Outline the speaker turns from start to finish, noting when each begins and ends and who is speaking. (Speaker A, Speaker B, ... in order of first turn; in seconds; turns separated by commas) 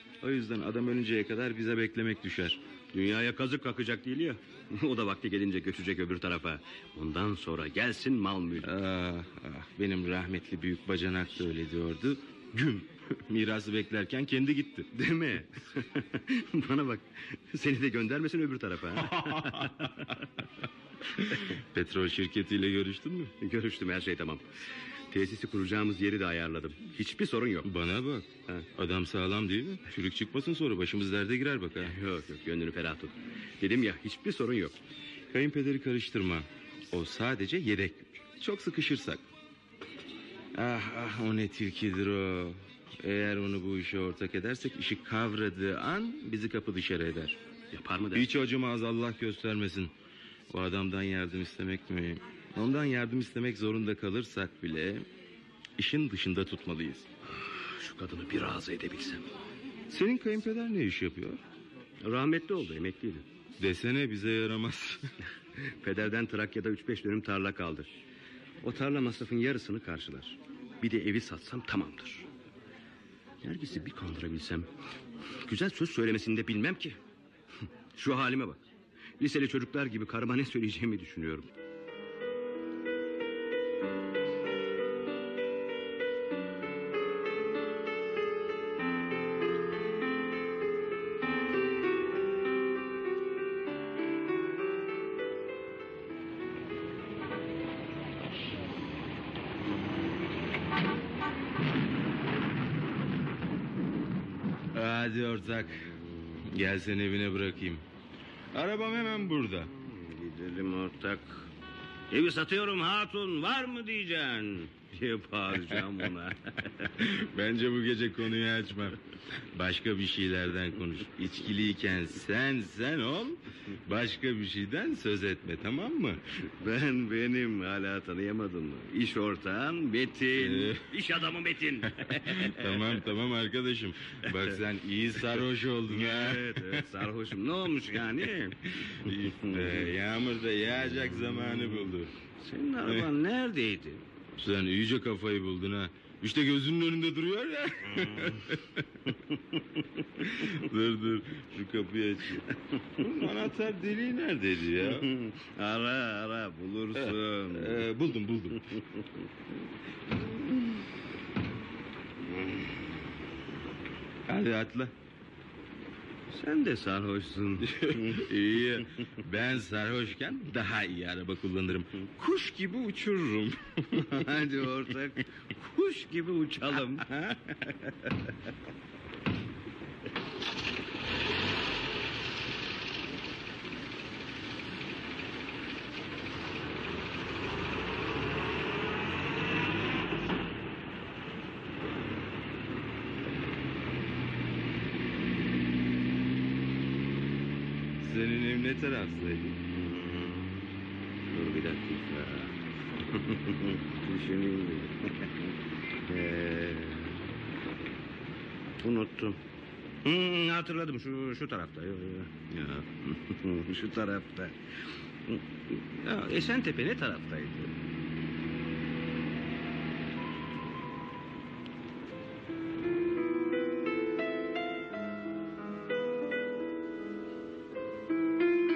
Speaker A: 0.2-2.6, Speaker B: 2.9-8.7, Speaker A: 8.6-14.9, Speaker B: 14.9-20.1, Speaker A: 19.1-19.8, Speaker A: 21.3-23.3, Speaker B: 23.4-24.4, Speaker B: 25.1-27.7, Speaker A: 27.6-31.9, Speaker B: 31.8-34.8, Speaker A: 35.3-39.2, Speaker A: 40.5-47.4, Speaker B: 47.7-48.3, Speaker A: 48.1-49.9, Speaker A: 50.5-55.0, Speaker A: 55.8-57.1, Speaker B: 57.4-59.3, Speaker A: 59.9-61.4, Speaker B: 62.0-63.2, Speaker A: 63.6-65.1, Speaker B: 65.6-67.9, Speaker B: 68.6-72.3, Speaker B: 73.4-74.7, Speaker B: 75.4-77.0, Speaker B: 78.0-78.6, Speaker B: 79.2-81.5, Speaker A: 104.7-105.9, Speaker A: 106.4-107.8, Speaker A: 108.5-109.7, Speaker B: 109.7-111.5, Speaker B: 112.1-116.9, Speaker A: 117.0-119.0, Speaker A: 119.5-126.2, Speaker B: 126.6-133.0, Speaker A: 130.4-130.9, Speaker A: 132.0-136.9, Speaker B: 135.9-139.9, Speaker A: 139.0-142.1, Speaker B: 142.4-144.0, Speaker A: 144.4-148.8, Speaker B: 147.9-148.5, Speaker A: 150.2-152.4, Speaker A: 153.0-155.1, Speaker B: 154.8-157.8, Speaker A: 156.9-158.7, Speaker B: 162.3-162.6, Speaker A: 164.3-164.9, Speaker B: 166.3-168.3, Speaker A: 167.6-174.3, Speaker B: 173.9-178.1, Speaker A: 198.0-199.6, Speaker B: 199.7-200.7, Speaker B: 201.3-202.5, Speaker B: 203.1-205.5, Speaker B: 206.1-207.2, Speaker B: 208.8-209.4, Speaker B: 210.0-214.6, Speaker B: 215.3-217.7